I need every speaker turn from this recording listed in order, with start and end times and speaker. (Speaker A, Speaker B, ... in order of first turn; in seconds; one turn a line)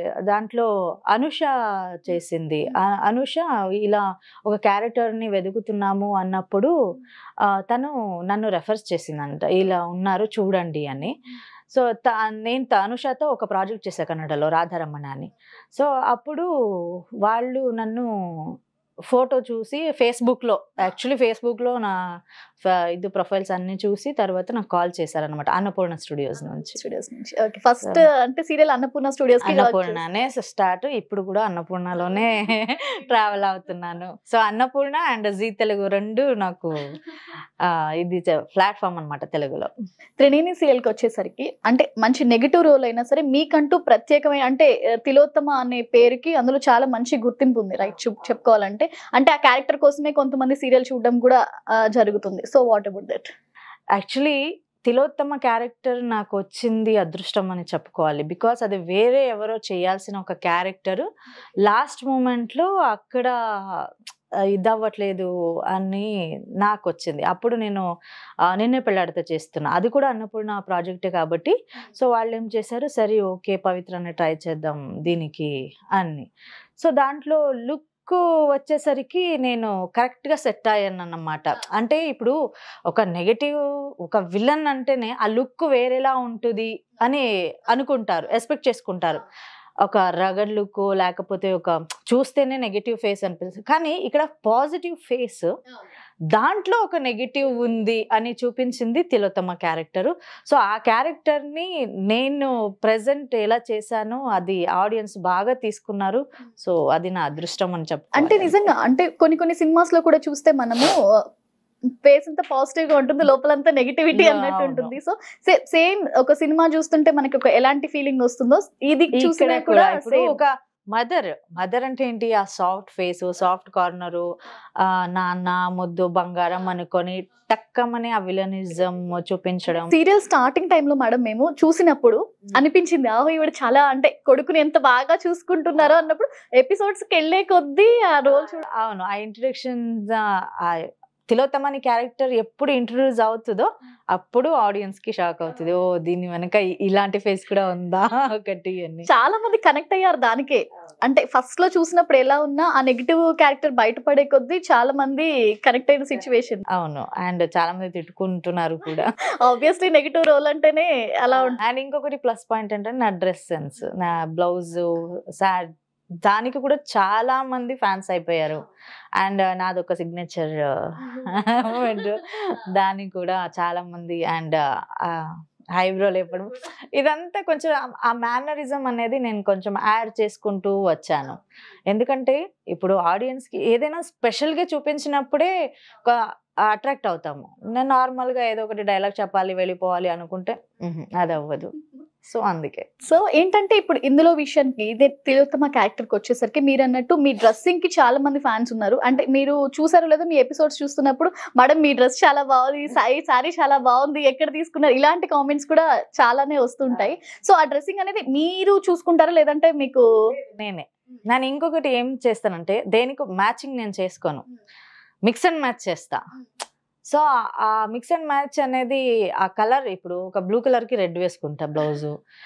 Speaker A: 0.3-6.7
Speaker A: 7.5-11.1
Speaker A: 11.7-18.5
Speaker A: 19.1-22.0
Speaker A: 22.6-26.8
Speaker B: 26.8-30.0
Speaker A: 29.4-36.9
Speaker A: 37.6-39.7
Speaker B: 40.2-53.3
Speaker A: 53.9-61.1
Speaker A: 61.6-63.9
Speaker A: 64.5-66.1
Speaker A: 66.6-67.8
Speaker A: 68.5-82.3
Speaker A: 82.9-89.2
Speaker A: 89.8-95.5
Speaker A: 96.3-108.5
Speaker B: 108.2-110.9
Speaker B: 112.0-120.4
Speaker A: 114.1-114.9
Speaker A: 119.2-124.3
Speaker A: 124.8-129.9
Speaker B: 129.9-138.6
Speaker A: 138.7-149.1
Speaker B: 149.1-156.6
Speaker A: 156.7-159.1
Speaker B: 159.4-161.6
Speaker A: 161.6-165.7
Speaker A: 166.2-168.7
Speaker A: 169.2-185.5
Speaker A: 186.0-191.7
Speaker A: 192.2-192.8
Speaker B: 193.0-210.1
Speaker A: 210.5-214.4
Speaker A: 215.2-216.2
Speaker A: 217.1-222.2